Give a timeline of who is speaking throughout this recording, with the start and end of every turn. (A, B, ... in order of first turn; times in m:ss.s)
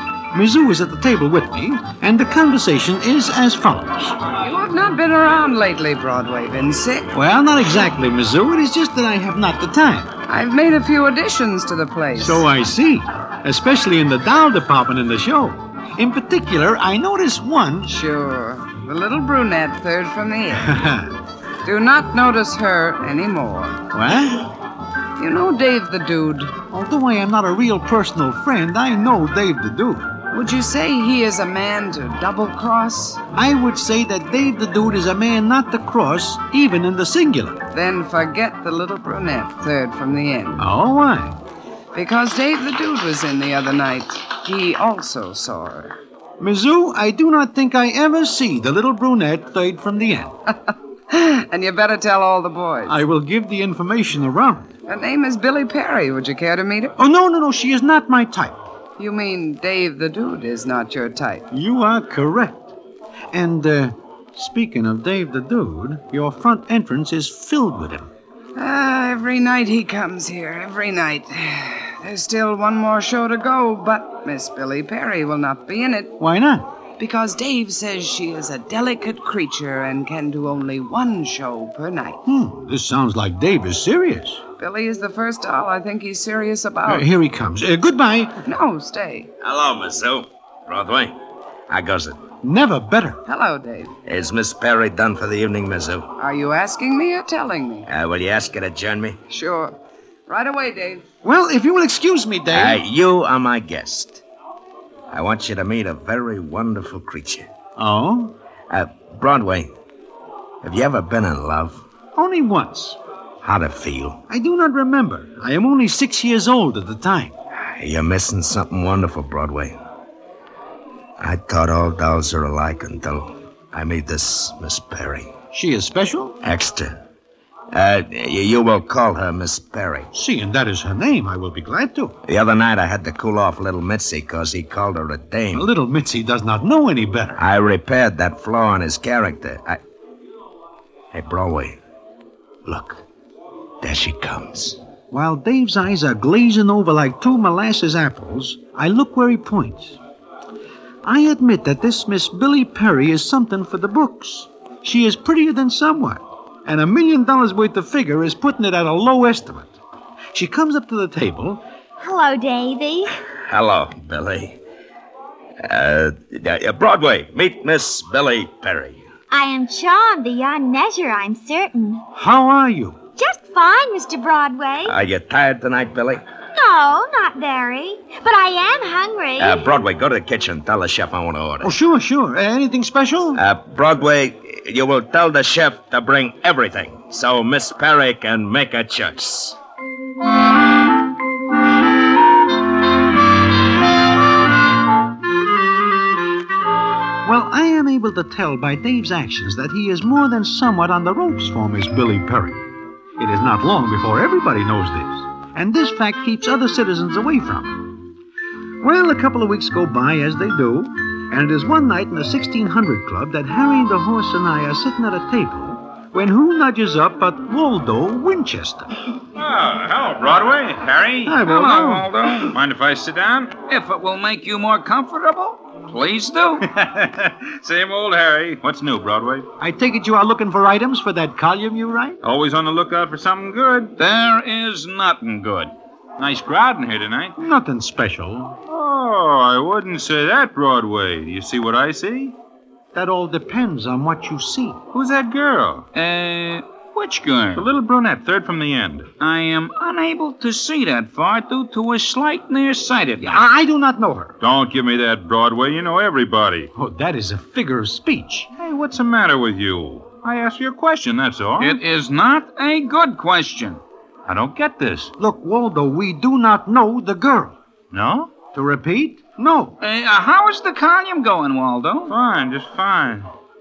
0:00.3-0:04.2 A
0:04.4-0:07.1 B
0:07.1-0:10.1 A
0:10.3-0:12.5 B
0:12.2-0:17.9 A
0:17.9-0:20.8 B
0:20.6-0:21.1 A
0:21.6-0:23.8 B
0:23.9-0:24.5 A
0:25.2-0:26.5 B
0:26.7-0:30.1 A
0:30.3-0:33.2 B
0:33.3-0:37.6 A
0:37.7-0:40.7 B
0:40.6-0:41.4 A
0:42.0-0:46.0 B
0:46.4-0:50.4 A
0:50.7-0:53.0 B
0:52.9-0:54.7 A
0:54.9-0:57.0 B
0:57.0-0:58.6 A
0:59.0-1:01.4 B
1:01.5-1:02.8 A
1:03.3-1:08.1 A
1:08.6-1:16.2 B
1:16.2-1:16.7 A
1:17.0-1:22.2 B
1:22.2-1:24.4 A
1:24.6-1:27.1 B
1:26.9-1:28.4 A
1:28.4-1:29.3 B
1:29.4-1:31.2 C
1:31.7-1:32.2 C
1:32.4-1:33.2 A
1:33.3-1:33.9 B
1:34.0-1:36.1 C
1:36.2-1:37.9 B
1:37.9-1:39.2 C
1:39.3-1:39.8 B
1:40.3-1:41.0 B
1:41.2-1:42.8 A
1:42.5-1:44.2 C
1:45.1-1:47.5 C
1:47.8-1:48.3 A
1:48.7-1:49.7 C
1:50.6-1:51.8 C
1:52.2-1:53.0 A
1:53.4-1:54.2 C
1:54.3-1:57.3 A
1:57.8-1:59.8 C
2:01.2-2:05.3 C
2:05.5-2:06.4 A
2:06.4-2:07.0 C
2:07.7-2:10.1 C
2:10.1-2:12.2 A
2:12.3-2:15.7 C
2:15.5-2:17.4 A
2:17.4-2:19.8 C
2:21.1-2:21.8 C
2:22.7-2:23.0 C
2:23.8-2:24.8 C
2:25.1-2:30.0 A
2:31.0-2:39.8 A
2:40.3-2:41.6 A
2:42.0-2:43.1 D
2:43.5-2:44.6 C
2:45.6-2:49.0 C
2:49.3-2:52.0 D
2:52.2-2:53.0 A
2:53.2-2:55.0 D
2:54.9-2:56.2 C
2:56.5-2:59.8 D
2:59.4-3:01.7 C
3:01.6-3:03.4 A
3:03.4-3:09.6 C
3:17.2-3:22.7 A
3:23.2-3:27.9 A
3:28.8-3:38.9 A
3:39.4-3:41.4 E
3:41.2-3:42.2 A
3:41.4-3:42.6 F
3:42.4-3:43.6 E
3:43.7-3:46.7 F
3:46.6-3:49.5 E
3:49.6-3:52.2 A
3:52.2-3:54.0 E
3:54.0-3:55.7 F
3:56.2-3:57.3 E
3:57.4-3:58.6 A
3:58.7-4:02.4 E
4:02.9-4:04.8 A
4:04.9-4:05.9 E
4:05.9-4:07.7 F
4:07.6-4:09.1 E
4:09.2-4:13.4 F
4:13.2-4:14.4 A
4:14.4-4:16.7 E
4:16.8-4:18.5 A
4:18.6-4:21.8 E
4:21.6-4:23.8 F
4:24.3-4:25.1 E
4:25.2-4:27.6 A
4:27.9-4:28.3 E
4:28.5-4:29.8 A
4:29.8-4:32.1 F
4:32.1-4:33.3 E